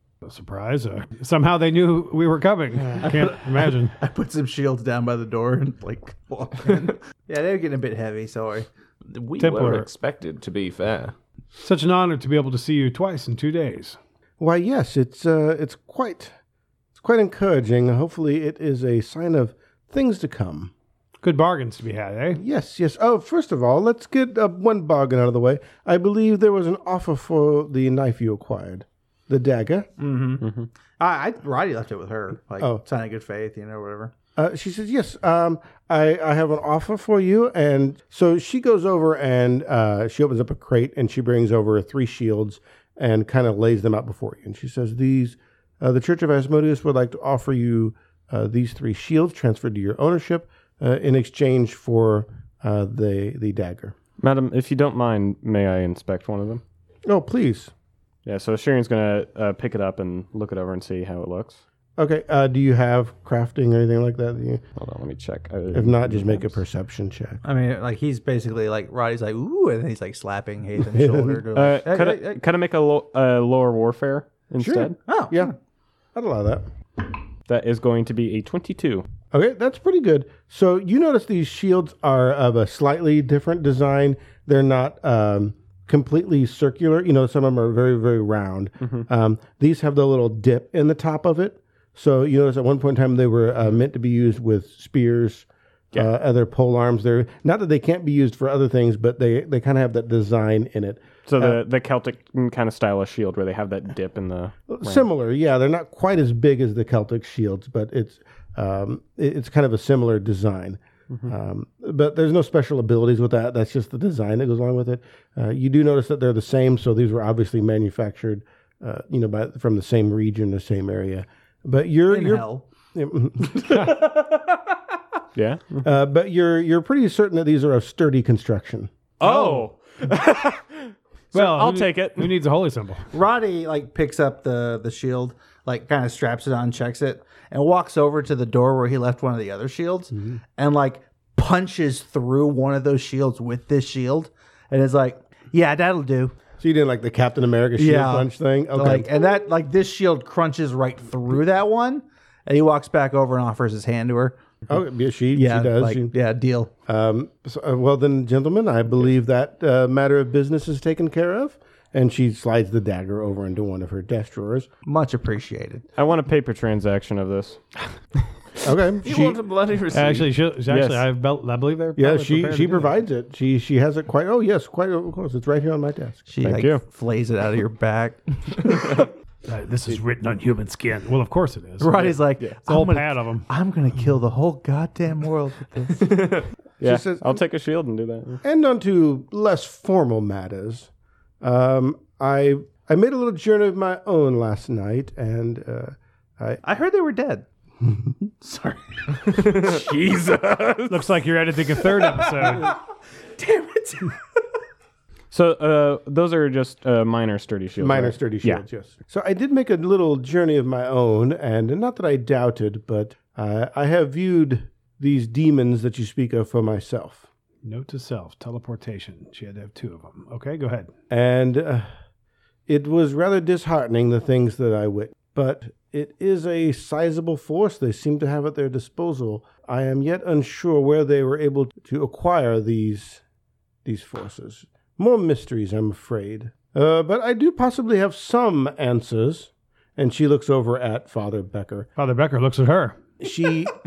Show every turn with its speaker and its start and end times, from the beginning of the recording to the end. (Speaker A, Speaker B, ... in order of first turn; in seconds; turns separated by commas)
Speaker A: 0.2-3.9, Speaker B: 3.0-8.7, Speaker C: 9.1-11.1, Speaker A: 9.4-9.9, Speaker A: 11.6-14.0, Speaker D: 14.4-16.3, Speaker D: 17.0-20.7, Speaker A: 21.2-22.4, Speaker D: 22.4-29.9, Speaker B: 30.0-34.1, Speaker D: 34.4-53.9, Speaker E: 54.2-56.6, Speaker D: 57.0-57.7, Speaker E: 58.2-61.6, Speaker D: 62.0-64.6, Speaker E: 64.8-66.5, Speaker D: 65.7-67.4, Speaker B: 67.4-72.4, Speaker D: 70.9-71.4, Speaker E: 71.5-75.0, Speaker D: 74.6-75.5, Speaker B: 75.0-75.5, Speaker D: 76.1-76.7, Speaker E: 77.5-79.1, Speaker D: 79.3-101.6, Speaker E: 88.8-89.0, Speaker E: 101.2-105.1, Speaker D: 104.7-123.9, Speaker B: 122.1-122.7, Speaker B: 123.7-124.8, Speaker E: 125.3-125.8, Speaker D: 125.8-128.9, Speaker E: 129.2-132.4, Speaker B: 129.2-129.7, Speaker A: 131.3-133.1, Speaker B: 133.1-146.3, Speaker D: 140.1-140.4, Speaker D: 146.6-149.1, Speaker B: 147.8-154.4, Speaker D: 154.7-156.1, Speaker B: 155.3-156.7, Speaker D: 156.9-164.7, Speaker B: 164.8-165.8, Speaker E: 165.9-167.6, Speaker D: 168.6-169.4, Speaker C: 169.0-170.3, Speaker A: 169.9-172.9, Speaker E: 170.7-171.0, Speaker D: 171.9-176.3, Speaker B: 176.3-179.1, Speaker E: 176.4-176.8, Speaker A: 179.5-183.4, Speaker B: 181.8-186.3, Speaker D: 186.8-187.4, Speaker E: 186.8-188.4, Speaker D: 188.4-190.9, Speaker D: 191.4-196.6, Speaker B: 196.6-197.4, Speaker B: 198.4-200.1, Speaker C: 199.2-201.1, Speaker A: 200.9-202.8, Speaker B: 201.8-202.8, Speaker B: 203.3-204.4, Speaker E: 205.3-208.6, Speaker D: 207.8-217.2, Speaker A: 217.6-220.9, Speaker D: 221.1-221.9, Speaker D: 222.7-233.2, Speaker D: 233.8-241.9, Speaker A: 242.0-243.0, Speaker D: 243.2-243.8